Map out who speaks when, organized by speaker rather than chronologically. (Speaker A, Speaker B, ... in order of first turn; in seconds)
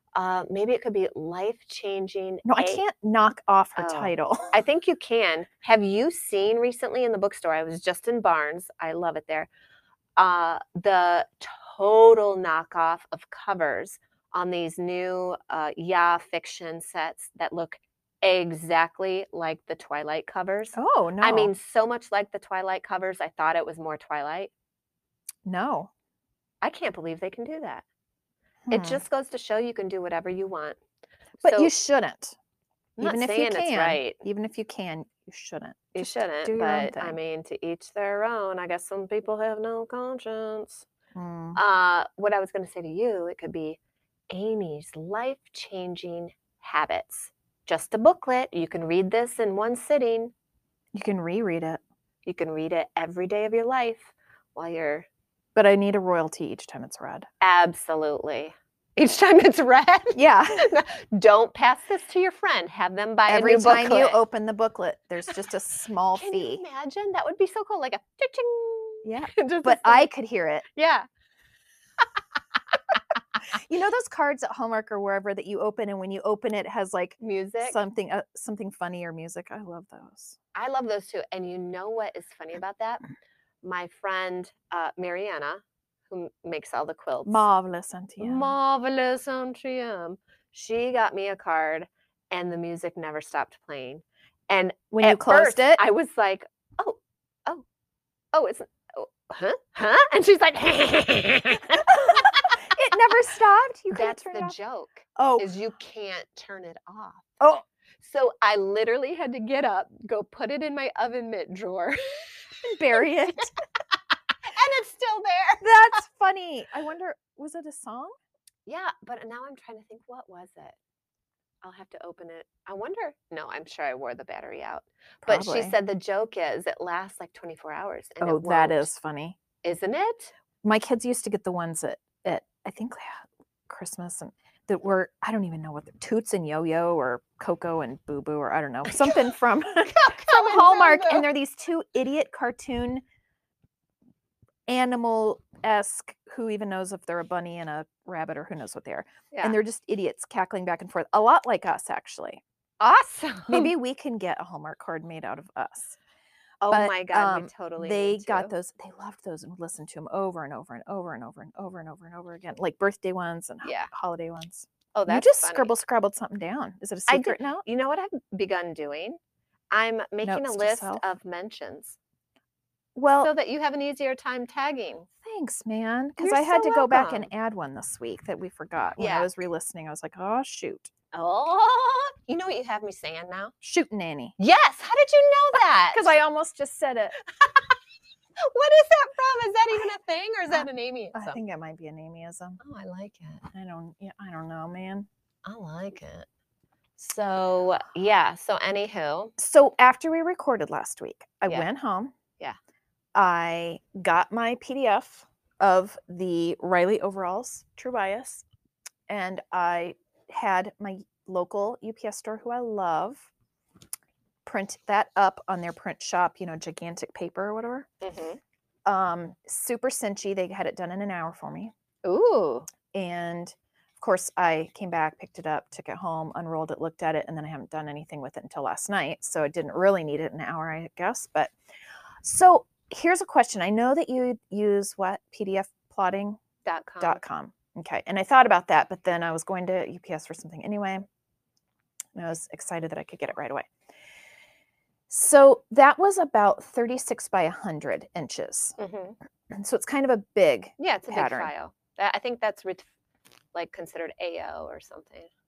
Speaker A: 0.1-2.8, 3.8-9.5, 10.2-24.5, 26.6-27.9, 28.7-30.8, 31.4-31.7, 33.0-34.2, 36.0-40.9, 41.5-43.8, 44.3-50.3, 52.2-55.1, 57.4-64.2, 66.2-70.1, 70.7-71.1, 77.2-77.8, 80.5-83.0, 83.6-87.5, 88.2-97.7, 98.3-102.6, 103.9-107.3, 108.0-112.2, 114.5-115.7, 118.7-120.8, 121.6-128.9, 129.6-130.3, 139.9-141.3, 149.3-149.6, 152.8-153.7, 156.6-158.5, 163.6-163.9, 164.9-165.7, 167.1-169.2, 169.7-172.0, 173.2-175.1, 176.2-177.3, 179.0-179.3, 181.1-183.5, 184.4-186.2, 188.4-191.4, 192.6-193.5, 195.4-196.3, 197.0-199.3, 218.0-218.4, 222.0-222.7, 236.7-237.2, 248.8-249.2, 250.8-252.9, 253.5-255.3
Speaker B: 2.5-4.6, 20.8-21.5, 25.4-25.9, 28.7-29.0, 31.4-32.4, 33.0-37.2, 41.1-41.6, 50.9-51.8, 55.5-57.3, 60.1-60.7, 63.3-66.6, 69.0-70.7, 73.5-80.4, 87.2-88.5, 94.9-95.8, 101.9-104.5, 105.2-105.5, 112.6-113.5, 115.6-118.1, 125.2-125.8, 128.2-129.4, 130.6-143.0, 144.7-152.4, 153.5-156.0, 156.7-167.7, 170.2-171.0, 173.0-173.3, 175.2-180.9, 183.6-184.3, 185.9-187.2, 190.5-192.6, 193.5-195.1, 199.4-202.1, 203.2-208.5, 209.1-213.3, 214.4-217.9, 218.9-221.7, 222.9-231.5, 232.2-236.4, 237.0-241.1, 242.2-243.7, 245.1-248.8, 249.5-251.5